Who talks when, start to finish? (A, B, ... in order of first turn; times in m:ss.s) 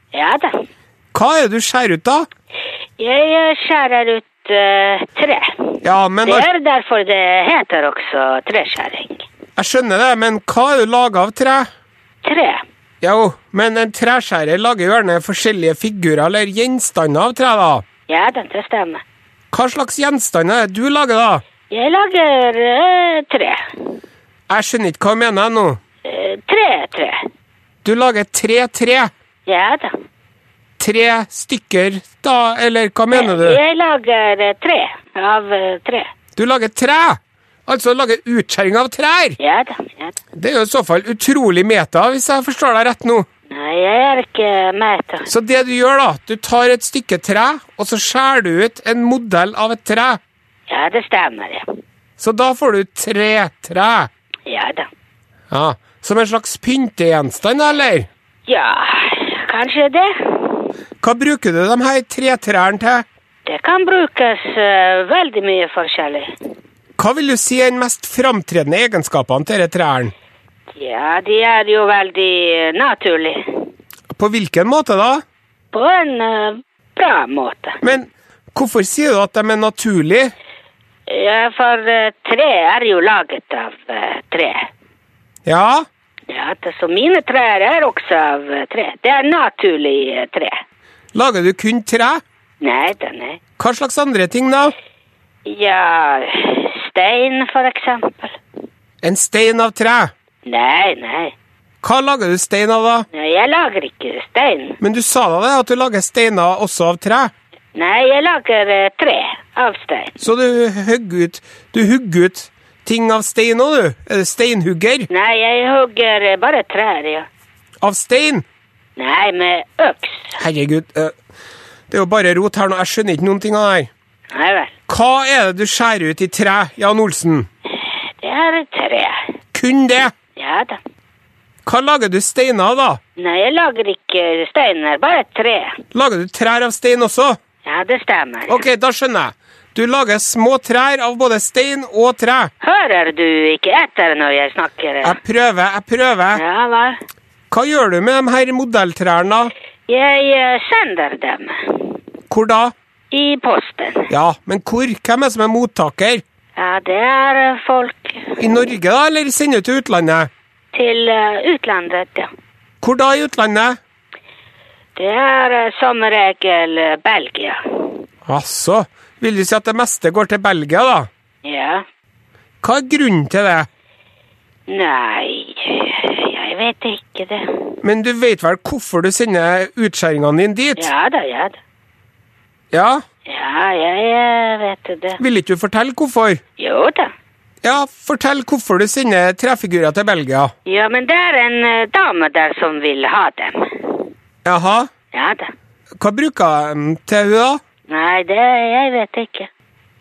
0:00.1-0:00.5 A
0:01.1-0:02.3 B
0:03.0-0:09.2 A
0:05.8-0:06.5 B
0:09.6-0:11.7 B
0:12.2-0:12.6 A
0:13.0-0:17.8 B
0:18.1-0:19.0 A
0:19.5-0:21.4 B
0:21.7-0:23.6 A
0:24.5-0:25.8 B
0:26.0-0:27.3 A
0:27.8-0:29.1 B
0:29.5-0:29.9 A
0:30.8-0:33.6 B
0:33.1-0:36.1 A
0:36.4-0:39.4 B
0:39.4-0:40.2 A
0:40.4-0:43.3 B
0:43.5-0:45.3 A
0:45.3-0:50.2 B
0:50.7-0:51.7 A
0:52.2-0:54.1 B
0:54.5-0:54.9 A
0:55.5-0:58.1 B
0:58.5-1:00.7 A
1:01.0-1:03.0 B
1:03.5-1:06.3 A
1:07.0-1:10.1 B
1:10.8-1:13.6 A
1:14.1-1:15.2 B
1:15.7-1:17.8 A
1:17.8-1:20.3 B
1:21.1-1:24.7 A
1:25.5-1:25.9 B
1:26.3-1:30.6 A
1:31.2-1:32.2 B
1:32.6-1:33.4 A
1:33.6-1:34.7 B
1:35.5-1:38.4 A
1:39.0-1:40.1 B
1:40.5-1:41.3 A
1:41.8-1:43.1 B
1:43.1-1:44.8 A
1:44.8-1:47.3 B
1:47.8-1:50.2 A
1:50.2-1:55.1 B
1:55.1-1:57.3 A
1:57.8-1:58.4 B
1:59.0-2:00.4 A
2:00.4-2:01.2 B
2:01.9-2:03.9 B
2:04.3-2:04.7 A
2:04.9-2:07.5 B
2:07.7-2:09.3 A
2:09.5-2:10.1 B
2:10.4-2:10.8 A
2:11.6-2:13.0 B
2:13.2-2:15.8 A
2:15.9-2:17.4 B
2:17.6-2:18.6 A
2:18.5-2:22.5 B
2:22.6-2:25.2 A
2:25.0-2:26.4 B
2:26.3-2:27.0 A
2:27.5-2:29.5 B
2:29.9-2:32.0 A
2:32.3-2:32.7 B
2:33.1-2:34.1 A
2:34.1-2:36.2 B
2:36.6-2:38.4 A
2:38.4-2:40.3 B
2:40.7-2:42.3 A
2:42.8-2:43.8 B
2:45.0-2:48.0 A
2:48.3-2:51.1 B
2:51.4-2:51.8 A
2:52.6-2:53.7 B
2:54.7-2:57.8 A
2:57.8-3:00.9 B
3:00.8-3:01.6 A
3:02.7-3:03.0 B
3:03.3-3:05.2 A
3:05.2-3:06.4 B
3:06.6-3:07.1 A
3:07.6-3:10.5 B
3:10.7-3:14.1 A
3:14.4-3:14.9 B
3:15.1-3:15.5 A
3:16.0-3:17.6 B
3:17.9-3:19.5 A